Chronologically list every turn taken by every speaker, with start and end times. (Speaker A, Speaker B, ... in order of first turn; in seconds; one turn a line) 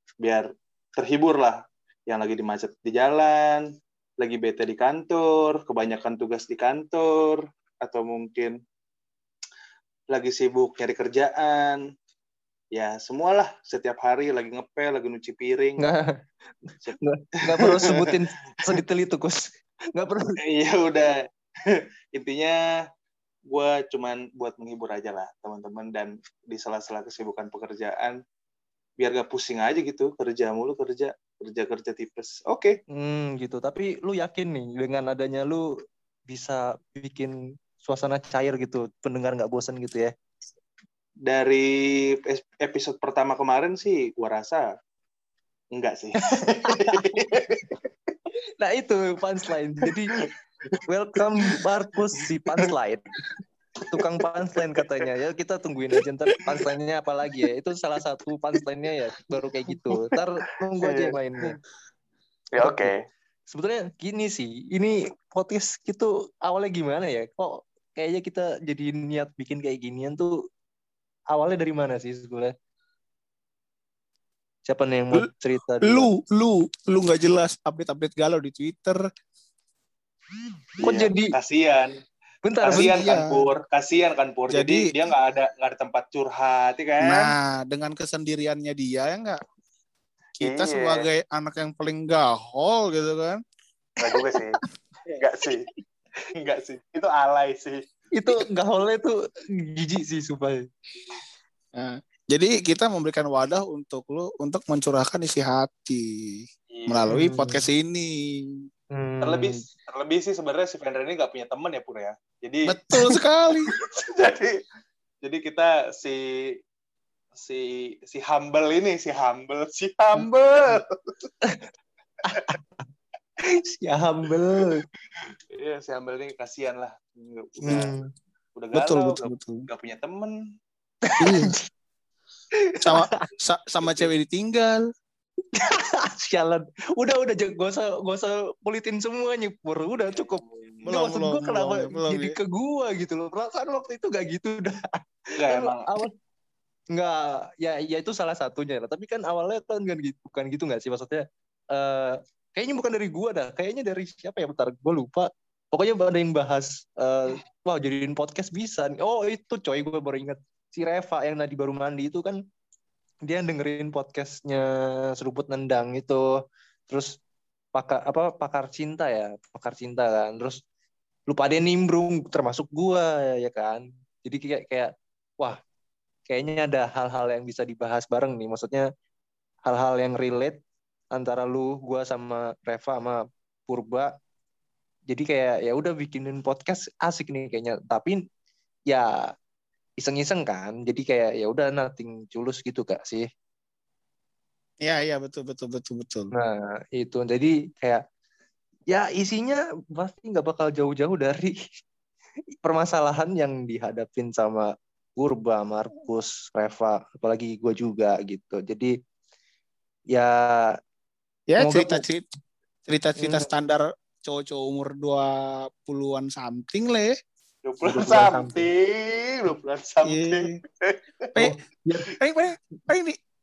Speaker A: 0.2-8.6
Speaker A: 10.1-11.8
Speaker A: 12.7-15.9
Speaker B: 15.8-20.4
Speaker A: 17.5-18.1
Speaker A: 20.4-22.6
Speaker A: 23.5-28.2
Speaker A: 29.0-32.8
Speaker B: 32.9-35.7
Speaker B: 36.3-40.1
Speaker A: 41.2-44.7
Speaker A: 45.7-47.7
Speaker B: 46.3-47.2
Speaker B: 48.6-50.1
Speaker B: 50.9-53.0
Speaker B: 53.8-61.6
Speaker A: 59.9-60.2
Speaker A: 60.8-61.5
Speaker A: 62.5-63.0
Speaker B: 62.6-62.9
Speaker B: 63.5-70.4
Speaker B: 71.3-72.5
Speaker B: 74.7-76.1
Speaker C: 75.8-79.0
Speaker B: 80.8-81.3
Speaker A: 80.8-82.0
Speaker B: 82.4-82.9
Speaker A: 82.6-87.3
Speaker C: 82.7-83.5
Speaker C: 84.5-84.9
Speaker C: 87.0-89.4
Speaker A: 90.4-91.1
Speaker C: 90.4-93.4
Speaker A: 94.0-94.6
Speaker A: 95.1-95.6
Speaker A: 96.4-97.8
Speaker B: 98.1-100.6
Speaker C: 101.7-108.7
Speaker A: 106.7-107.1
Speaker B: 107.1-107.6
Speaker B: 108.9-109.6
Speaker A: 109.2-112.8
Speaker C: 112.6-113.7
Speaker A: 113.9-114.5
Speaker A: 115.2-116.6
Speaker A: 117.4-120.9
Speaker B: 122.3-122.6
Speaker B: 123.4-124.8
Speaker A: 125.5-127.9
Speaker B: 127.6-128.1
Speaker A: 128.5-130.4
Speaker C: 128.7-129.6
Speaker B: 131.1-131.6
Speaker C: 131.2-131.5
Speaker B: 132.7-133.2
Speaker C: 132.8-134.8
Speaker B: 135.5-146.1
Speaker A: 140.4-140.9
Speaker C: 140.8-142.3
Speaker A: 145.4-146.0
Speaker B: 146.9-162.4
Speaker B: 163.3-166.3
Speaker B: 166.9-167.2
Speaker B: 167.7-170.6
Speaker B: 171.3-175.6
Speaker B: 176.3-178.9
Speaker B: 179.7-180.6
Speaker B: 181.1-184.1
Speaker B: 185.1-188.2
Speaker B: 188.9-189.3
Speaker B: 190.0-193.2
Speaker C: 194.8-196.3
Speaker B: 196.3-198.0
Speaker B: 198.9-201.6
Speaker B: 202.6-208.9
Speaker B: 210.1-210.8
Speaker C: 211.5-212.2
Speaker B: 211.6-212.0
Speaker C: 212.9-217.1
Speaker B: 213.2-213.5
Speaker A: 217.6-221.3
Speaker B: 217.8-218.7
Speaker C: 220.0-220.6
Speaker B: 221.4-222.2
Speaker C: 222.2-223.2